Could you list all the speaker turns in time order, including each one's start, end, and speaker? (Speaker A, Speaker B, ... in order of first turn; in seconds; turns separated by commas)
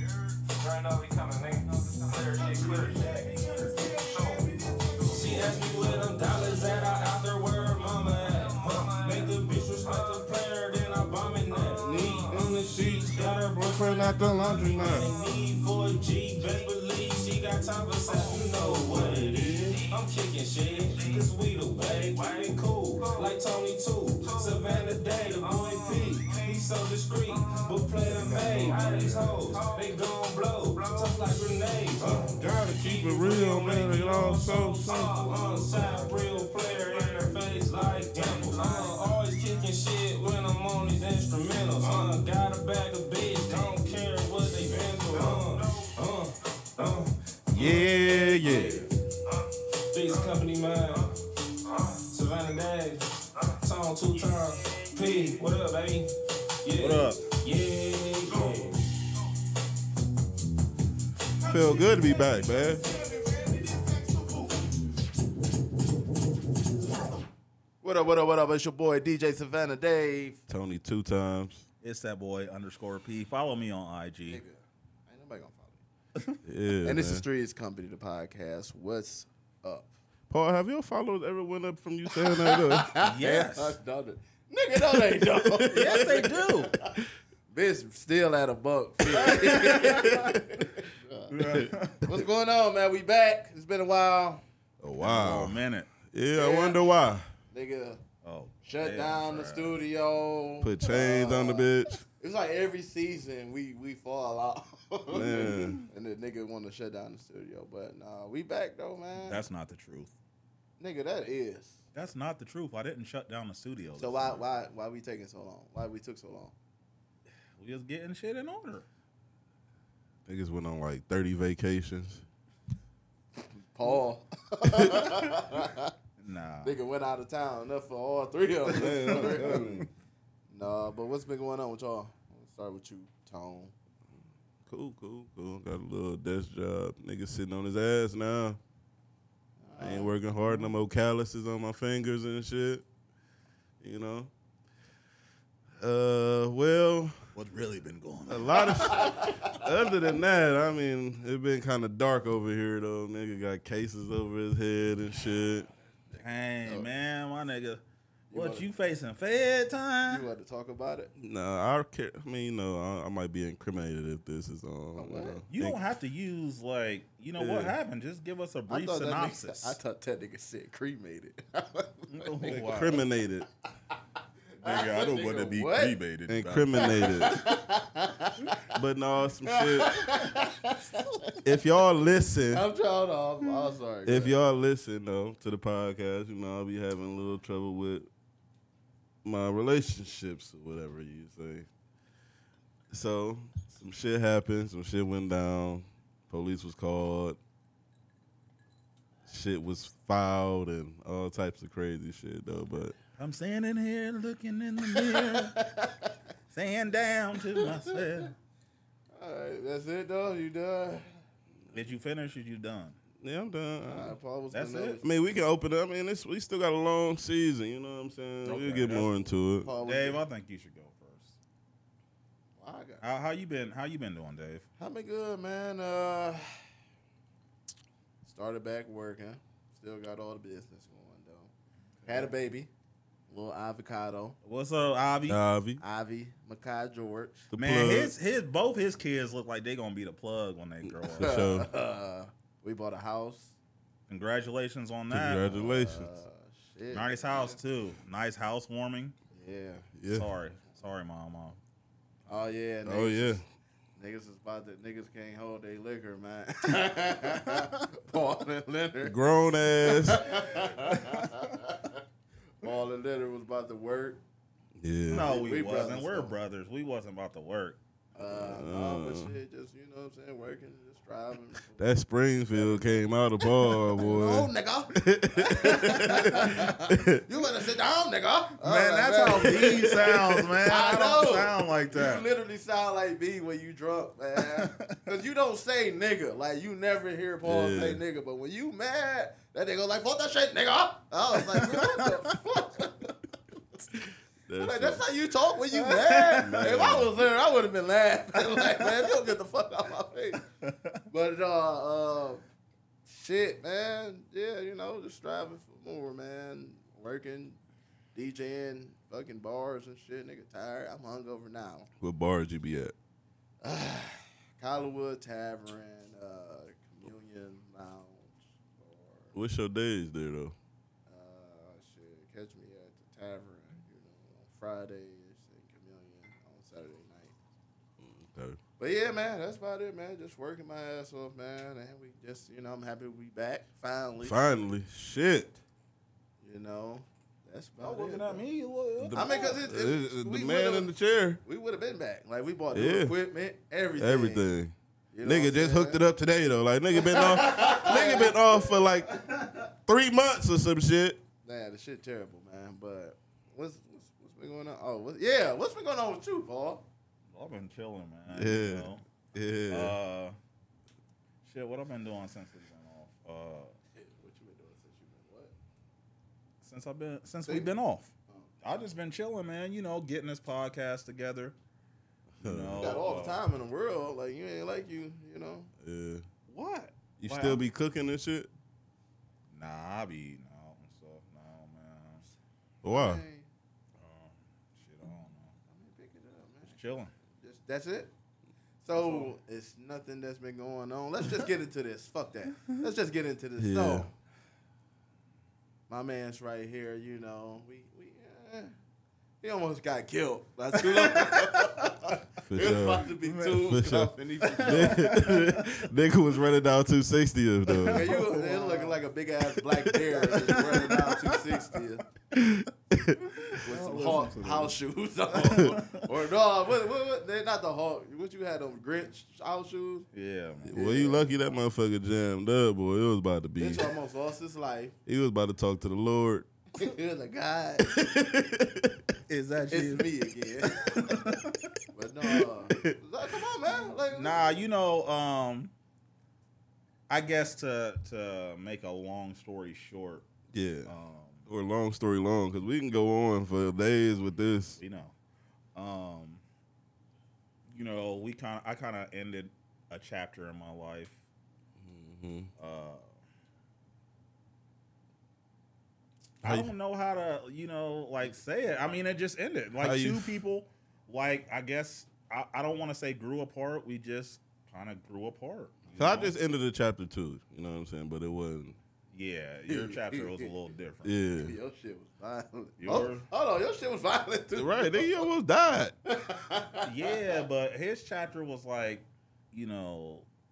Speaker A: 0.5-3.0, Speaker B: 2.4-6.5, Speaker A: 4.1-4.5, Speaker A: 5.1-47.1, Speaker C: 11.7-15.1, Speaker B: 18.1-19.2, Speaker C: 18.9-19.9, Speaker C: 28.2-29.5, Speaker C: 32.0-35.4, Speaker B: 45.2-45.5, Speaker C: 47.5-48.9, Speaker A: 48.1-48.4, Speaker A: 49.9-51.1, Speaker A: 51.7-56.1, Speaker B: 55.0-55.4, Speaker A: 56.6-58.8, Speaker B: 56.8-57.2, Speaker C: 61.5-62.9, Speaker D: 62.7-64.5, Speaker D: 67.8-70.4, Speaker C: 70.5-71.7, Speaker B: 71.8-74.4, Speaker D: 74.2-75.8, Speaker C: 76.4-77.3, Speaker D: 76.8-79.9, Speaker C: 80.3-83.0, Speaker D: 82.1-87.0, Speaker B: 83.0-83.8, Speaker C: 84.9-86.2, Speaker B: 85.7-86.8, Speaker D: 87.5-94.4, Speaker B: 89.2-90.4, Speaker C: 90.0-90.4, Speaker B: 91.3-92.1, Speaker C: 94.8-97.3, Speaker B: 95.0-95.9, Speaker D: 96.3-96.8, Speaker D: 97.5-98.0, Speaker B: 98.2-99.8, Speaker D: 98.6-109.4, Speaker C: 100.6-102.0, Speaker C: 105.1-105.8, Speaker B: 109.2-110.2, Speaker D: 110.8-111.8, Speaker B: 111.9-114.4, Speaker D: 114.0-116.5, Speaker B: 117.6-118.9, Speaker C: 120.2-122.2, Speaker D: 123.5-125.9, Speaker B: 126.2-126.8, Speaker D: 126.6-129.8, Speaker C: 128.7-129.9, Speaker B: 129.1-129.9, Speaker D: 130.5-133.7, Speaker C: 134.7-138.6, Speaker D: 139.6-140.2, Speaker C: 139.8-142.8, Speaker C: 143.8-144.3, Speaker C: 145.8-147.3, Speaker B: 147.3-149.3, Speaker C: 148.3-155.7, Speaker D: 148.7-149.6, Speaker D: 156.1-156.9, Speaker B: 156.2-160.3, Speaker D: 158.3-158.7, Speaker D: 160.1-161.1, Speaker C: 161.2-165.8, Speaker D: 165.0-165.4, Speaker B: 165.5-169.8, Speaker C: 167.4-167.8, Speaker D: 168.7-172.9, Speaker B: 172.1-173.0, Speaker C: 172.4-173.5, Speaker D: 174.6-176.0, Speaker B: 174.6-177.3, Speaker C: 176.3-177.4, Speaker D: 176.8-178.8, Speaker C: 178.7-180.2, Speaker D: 179.5-181.4, Speaker C: 181.4-182.7, Speaker D: 182.5-184.4, Speaker C: 184.1-188.1, Speaker C: 189.2-191.7, Speaker C: 192.9-197.4, Speaker C: 199.3-202.9, Speaker B: 203.2-205.6, Speaker D: 204.9-206.1, Speaker B: 206.5-208.3, Speaker D: 207.6-208.1, Speaker D: 209.1-211.1, Speaker B: 211.7-213.0, Speaker C: 213.2-214.2, Speaker D: 213.8-215.0, Speaker B: 214.5-215.0, Speaker C: 215.0-219.7, Speaker B: 218.4-221.4, Speaker D: 219.6-220.2, Speaker D: 222.6-223.0, Speaker B: 223.0-224.7, Speaker D: 224.8-226.6, Speaker D: 228.2-231.5, Speaker D: 232.1-232.7, Speaker D: 233.3-234.4, Speaker B: 234.4-235.4, Speaker C: 235.3-235.8, Speaker D: 235.8-237.5, Speaker C: 237.5-238.1, Speaker B: 237.6-241.4, Speaker C: 241.0-241.7, Speaker D: 241.1-243.6, Speaker B: 244.1-245.6, Speaker C: 245.1-246.1, Speaker D: 245.4-247.6, Speaker B: 246.9-249.2, Speaker D: 249.3-249.9, Speaker C: 250.0-250.3, Speaker B: 250.1-251.6, Speaker D: 252.3-253.4, Speaker C: 252.9-253.4, Speaker D: 254.0-259.2, Speaker C: 259.0-260.2, Speaker D: 259.8-262.0, Speaker D: 262.6-264.2, Speaker C: 264.8-265.3, Speaker B: 265.1-267.8, Speaker D: 265.1-266.4, Speaker D: 268.1-271.9, Speaker C: 268.2-269.4, Speaker C: 271.8-277.2, Speaker D: 272.5-272.9, Speaker D: 273.9-293.1, Speaker B: 278.6-282.2, Speaker C: 279.5-280.4, Speaker B: 284.5-285.0, Speaker C: 287.4-288.0, Speaker B: 291.6-292.1, Speaker C: 294.0-295.0, Speaker D: 294.6-300.4, Speaker B: 295.8-296.9, Speaker C: 296.4-297.2, Speaker B: 298.5-299.1, Speaker B: 300.6-301.0, Speaker D: 301.1-302.4, Speaker D: 303.1-307.6, Speaker D: 308.1-311.9, Speaker C: 312.0-312.9, Speaker D: 313.6-319.4, Speaker C: 319.3-320.6, Speaker D: 321.1-327.4, Speaker C: 328.0-328.6, Speaker D: 328.8-334.4, Speaker C: 334.2-335.6, Speaker D: 336.4-338.4, Speaker B: 337.8-339.5, Speaker C: 339.0-341.4, Speaker D: 339.1-340.9, Speaker D: 341.4-344.5, Speaker C: 342.7-343.1, Speaker C: 344.0-349.2, Speaker D: 345.1-346.0, Speaker D: 347.0-348.8, Speaker B: 347.7-348.1, Speaker B: 349.1-349.4, Speaker C: 349.9-351.2, Speaker D: 351.4-356.9, Speaker B: 357.3-359.0, Speaker C: 358.3-360.0, Speaker B: 359.7-360.4, Speaker B: 361.4-363.7, Speaker D: 363.9-365.5, Speaker B: 366.6-371.6, Speaker D: 367.5-367.7, Speaker C: 372.4-373.0, Speaker B: 372.4-373.4, Speaker D: 372.8-375.7, Speaker C: 375.8-376.3, Speaker B: 376.5-377.6, Speaker C: 377.2-378.5, Speaker B: 379.5-382.3, Speaker C: 382.8-383.2, Speaker D: 382.9-383.5, Speaker B: 384.0-385.6, Speaker D: 385.7-388.1, Speaker B: 386.6-387.1, Speaker D: 388.8-394.1, Speaker B: 388.9-389.3, Speaker C: 393.6-394.1, Speaker D: 395.9-398.8, Speaker D: 399.4-405.2, Speaker B: 400.9-401.9, Speaker C: 402.4-408.2, Speaker B: 403.2-403.7, Speaker B: 404.6-405.6, Speaker B: 407.7-409.0, Speaker D: 407.9-412.1, Speaker C: 409.9-410.9, Speaker B: 410.7-411.1, Speaker C: 412.3-413.2, Speaker B: 413.4-414.8, Speaker D: 413.6-420.1, Speaker B: 415.4-416.1, Speaker B: 420.1-420.8, Speaker C: 420.6-423.9, Speaker D: 420.7-421.5, Speaker D: 423.6-424.9, Speaker C: 425.1-426.5, Speaker D: 426.8-428.0, Speaker C: 427.9-429.0, Speaker B: 429.3-430.1, Speaker D: 429.7-431.2, Speaker B: 430.8-431.7, Speaker D: 431.9-434.6, Speaker C: 432.7-433.0, Speaker B: 434.1-435.7, Speaker B: 437.1-440.3, Speaker C: 440.5-440.9, Speaker B: 440.9-441.5, Speaker C: 441.5-444.8, Speaker B: 444.8-445.1, Speaker B: 445.8-446.4, Speaker B: 447.7-451.2, Speaker C: 451.8-452.5, Speaker B: 452.6-453.1, Speaker B: 456.4-466.4, Speaker C: 456.4-456.7, Speaker C: 459.8-460.4, Speaker C: 466.0-468.8, Speaker B: 469.1-471.1, Speaker D: 469.7-470.5, Speaker C: 471.0-471.6, Speaker D: 471.4-475.3, Speaker B: 472.8-473.3, Speaker C: 474.6-475.9, Speaker D: 476.1-477.4, Speaker B: 476.9-480.3